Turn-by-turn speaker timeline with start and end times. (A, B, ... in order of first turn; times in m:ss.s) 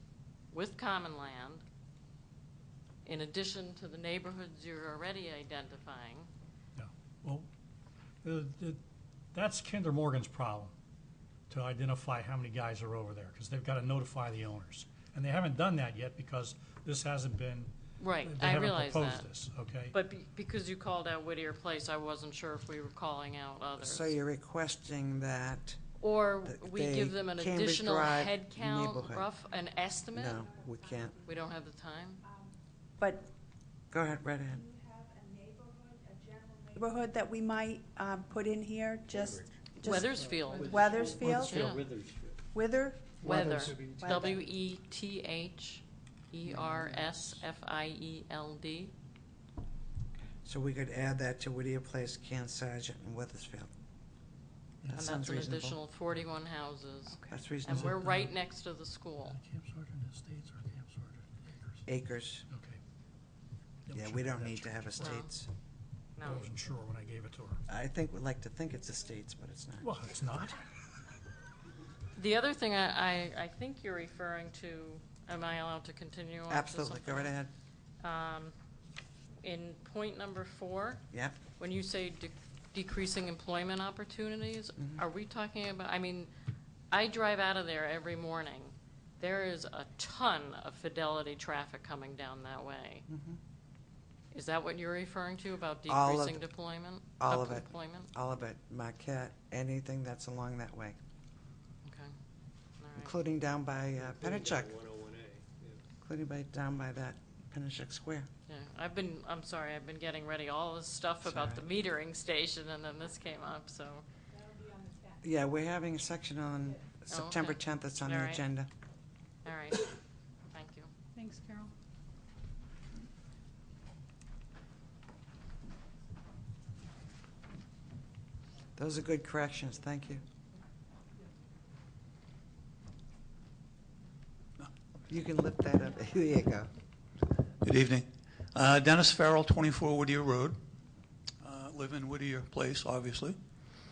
0:00.5-0:01.6 A
0:03.0-0:06.3 A
0:06.8-0:07.5 B
0:08.2-0:08.8 B
0:09.3-0:10.7 B
0:11.5-0:20.0 B
0:18.0-0:19.3 A
0:19.9-0:24.1 A
0:23.8-0:25.8 C
0:26.0-0:30.4 A
0:26.4-0:29.3 C
0:30.1-0:31.2 C
0:31.2-0:32.2 A
0:32.2-0:33.3 D
0:33.9-0:34.7 C
0:35.3-0:36.5 E
0:36.7-0:41.7 D
0:39.8-0:41.9 A
0:40.6-0:42.2 E
0:40.8-0:41.6 F
0:42.5-0:44.4 D
0:43.2-0:48.9 A
0:43.6-0:44.3 B
0:50.4-0:53.7 C
0:54.8-0:55.1 B
0:54.9-0:55.8 C
0:54.9-0:59.4 A
0:57.3-0:58.0 C
0:57.7-0:58.3 B
0:59.3-1:01.8 B
1:01.9-1:02.4 C
1:02.5-1:02.8 B
1:03.9-1:05.2 B
1:03.9-1:05.5 C
1:05.0-1:05.3 A
1:06.2-1:06.5 A
1:06.2-1:07.6 B
1:07.7-1:09.9 C
1:09.8-1:10.6 B
1:12.2-1:17.3 A
1:16.5-1:17.5 C
1:18.0-1:18.5 A
1:19.4-1:21.0 A
1:21.6-1:26.3 A
1:26.9-1:33.0 A
1:33.1-1:33.4 C
1:34.3-1:38.1 A
1:35.9-1:36.4 C
1:37.2-1:41.0 C
1:41.8-1:42.1 A
1:42.8-1:43.1 A
1:43.0-1:44.8 C
1:44.1-1:45.8 F
1:46.0-1:48.3 C
1:48.5-1:54.0 A
1:51.2-1:51.6 C
1:55.2-1:58.7 C
1:57.1-1:58.4 A
1:59.4-1:59.9 A
2:00.5-2:00.9 A
2:08.8-2:10.2 C
2:15.1-2:16.7 C
2:17.6-2:20.6 G
2:21.4-2:23.4 G